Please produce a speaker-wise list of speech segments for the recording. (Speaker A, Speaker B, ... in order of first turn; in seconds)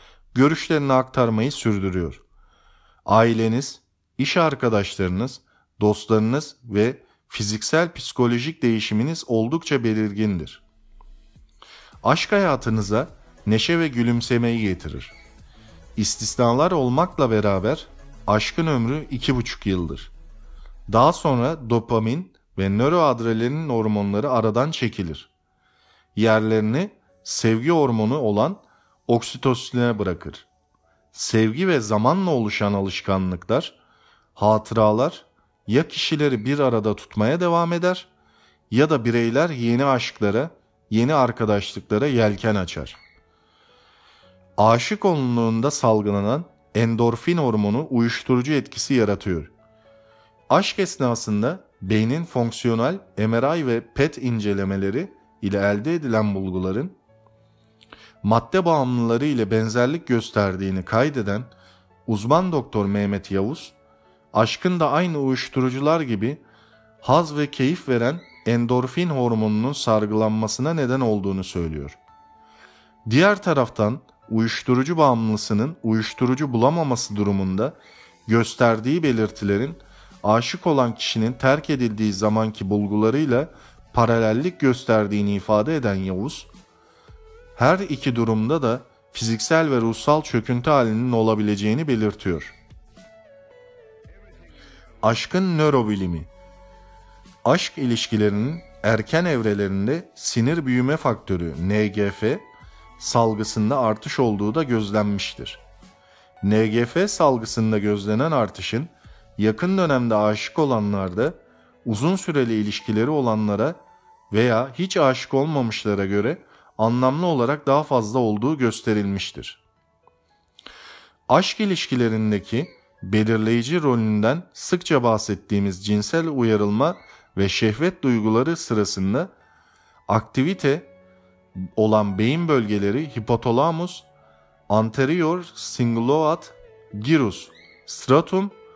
Speaker A: 0.3-2.2, 3.1-10.6, 12.0-15.2, 15.9-20.1, 20.9-25.3, 26.1-30.5, 31.1-33.8, 34.4-38.1, 38.7-43.0, 44.6-49.5, 50.5-57.0, 58.2-61.5, 62.1-63.8, 64.3-66.4, 67.0-72.0, 73.1-86.5, 87.6-92.6, 95.0-96.3, 97.4-102.5, 103.0-105.6, 106.4-113.8, 114.3-119.6, 121.3-129.3, 130.1-130.9, 131.8-134.1, 134.7-138.6